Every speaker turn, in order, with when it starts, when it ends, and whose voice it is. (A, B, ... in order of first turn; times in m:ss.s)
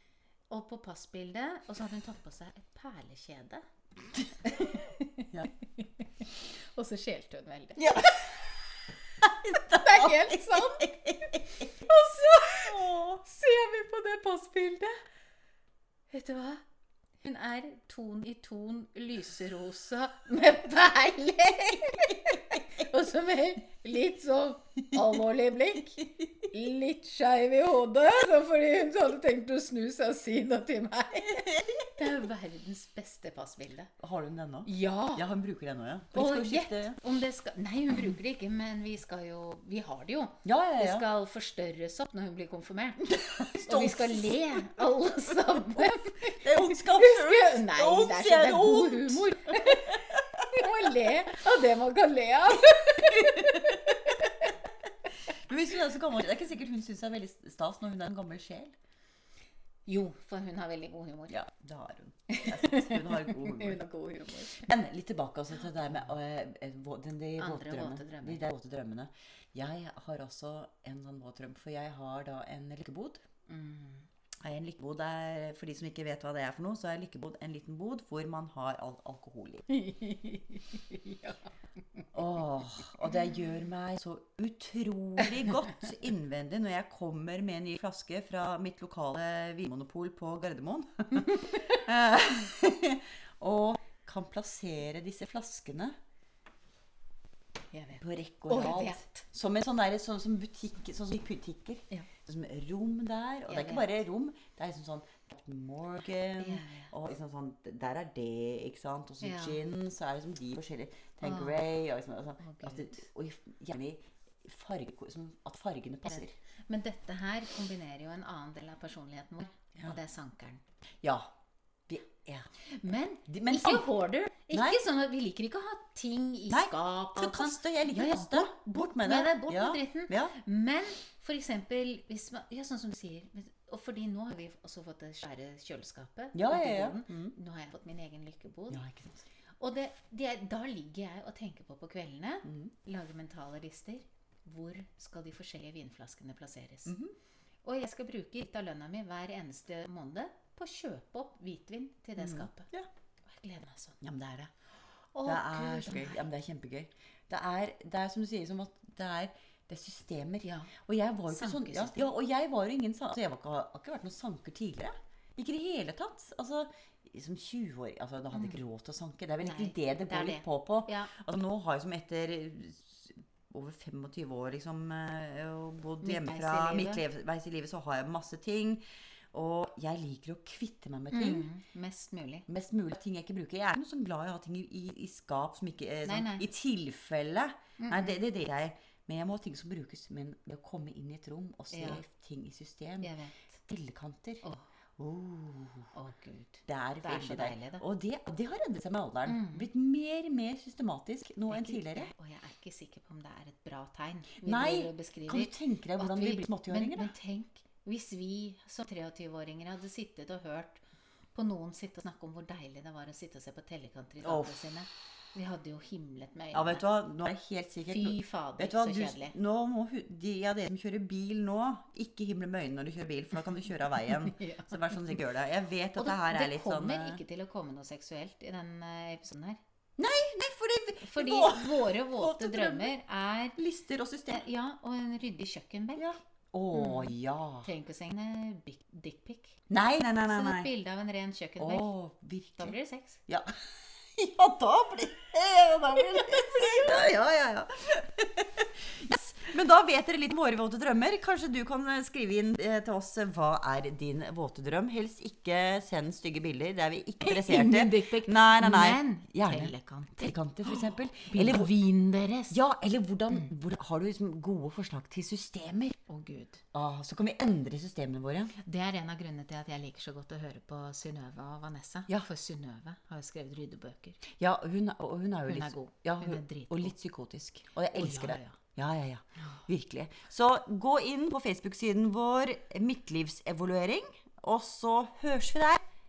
0:00.5-0:03.6 A
0:04.4-0:08.2 A
0:07.8-0:08.6 B
0:09.2-0:13.2 B
0:09.5-0:15.0 A
0:16.1-0:16.6 A
0:17.2-0:33.9 A
0:31.4-0:31.9 B
0:34.0-0:37.0 B
0:34.7-0:35.3 A
0:36.1-0:54.5 A
0:40.4-0:41.1 B
0:43.0-0:44.3 B
0:46.3-0:50.5 B
0:53.1-0:53.8 B
0:55.2-0:58.8 B
0:59.8-1:01.4 A
1:01.3-1:03.9 B
1:02.3-1:04.7 A
1:04.5-1:13.2 B
1:07.4-1:08.4 A
1:13.5-1:14.1 A
1:14.4-1:19.7 B
1:19.7-1:22.0 A
1:22.1-1:36.0 B
1:31.2-1:31.8 A
1:37.7-1:39.2 A
1:38.0-1:56.4 B
1:43.5-1:43.9 A
1:46.4-1:46.9 A
1:49.2-1:49.6 A
1:51.2-1:51.6 A
1:52.4-1:53.0 A
1:56.1-2:00.6 A
2:01.0-2:01.3 B
2:01.9-2:02.5 B
2:02.6-2:18.9 A
2:03.3-2:03.9 B
2:04.5-2:04.8 B
2:06.5-2:10.4 B
2:16.3-2:17.4 B
2:18.7-2:19.2 B
2:19.6-2:27.0 A
2:22.5-2:22.7 B
2:26.9-2:27.1 B
2:27.6-2:32.7 A
2:32.2-2:32.9 B
2:33.2-2:34.0 A
2:34.0-2:34.5 B
2:35.1-2:36.2 A
2:35.2-3:01.5 B
2:40.4-2:40.7 A
2:41.3-2:42.1 A
2:48.3-2:48.6 A
2:49.4-2:51.1 A
2:56.0-2:57.0 A
3:01.1-3:02.5 A
3:02.5-3:13.1 B
3:06.0-3:06.5 A
3:07.8-3:08.2 A
3:11.7-3:12.0 A
3:13.0-3:13.4 A
3:13.7-3:14.4 B
3:15.0-3:15.9 B
3:15.9-3:17.8 A
3:16.7-3:22.1 B
3:19.3-3:19.7 A
3:21.5-3:30.8 A
3:24.4-3:27.1 B
3:31.3-3:36.9 A
3:34.2-3:34.6 B
3:36.5-3:47.2 B
3:37.8-3:39.4 A
3:44.1-3:45.1 A
3:46.0-3:49.6 A
3:50.0-3:52.9 B
3:51.0-3:53.6 A
3:53.6-3:54.5 B
3:54.3-3:56.2 A
3:56.0-3:57.7 B
3:56.7-3:59.6 A
3:59.7-4:00.7 B
4:00.2-4:01.9 A
4:01.6-4:02.8 B
4:02.6-4:03.2 A
4:03.3-4:21.7 B
4:06.2-4:06.9 A
4:17.2-4:22.6 A
4:22.5-4:26.0 B
4:26.1-4:26.6 A
4:26.7-4:28.5 B
4:28.5-4:34.2 A
4:34.2-4:45.8 B
4:35.5-4:36.9 A
4:37.9-4:38.6 A